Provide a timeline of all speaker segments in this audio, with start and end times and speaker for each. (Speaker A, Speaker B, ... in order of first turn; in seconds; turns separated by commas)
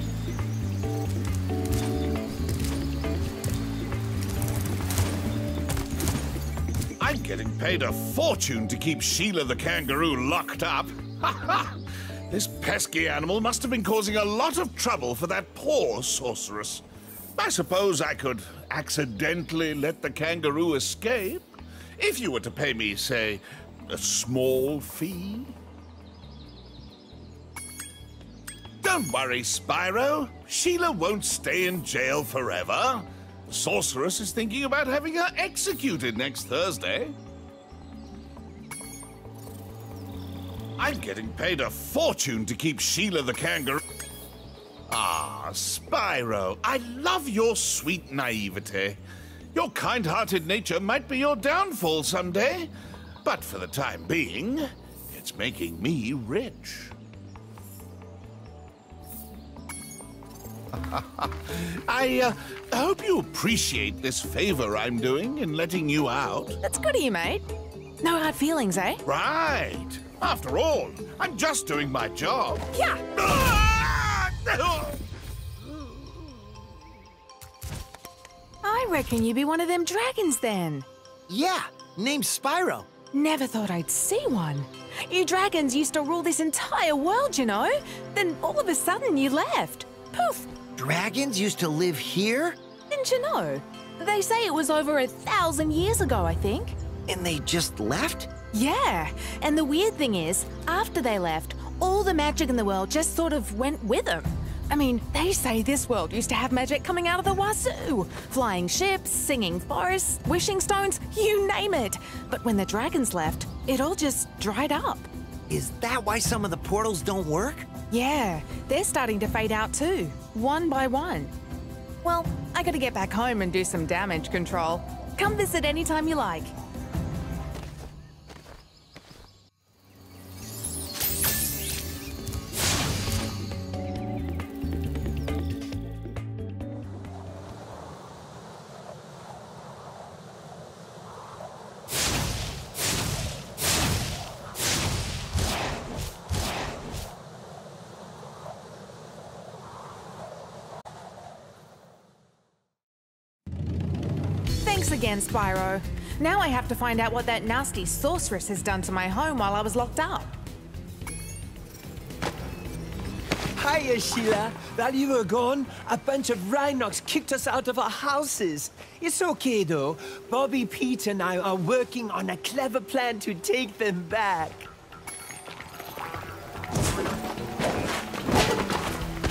Speaker A: 7.0-11.8, Speaker A: 12.3-16.8, Speaker A: 17.4-25.6, Speaker A: 28.8-37.2, Speaker A: 40.8-43.8, Speaker A: 44.9-49.0, Speaker A: 49.5-52.7, Speaker A: 53.2-56.9, Speaker A: 60.7-66.6, Speaker B: 66.6-67.5, Speaker B: 68.0-69.0, Speaker A: 69.0-75.0, Speaker B: 72.7-73.0, Speaker B: 78.6-80.8, Speaker C: 81.3-82.9, Speaker B: 83.1-90.5, Speaker C: 90.8-92.6, Speaker B: 92.9-96.8, Speaker C: 97.1-98.3, Speaker B: 98.5-115.1, Speaker C: 115.5-117.7, Speaker B: 117.9-121.3, Speaker B: 122.0-126.5, Speaker B: 154.6-160.3, Speaker D: 163.6-174.7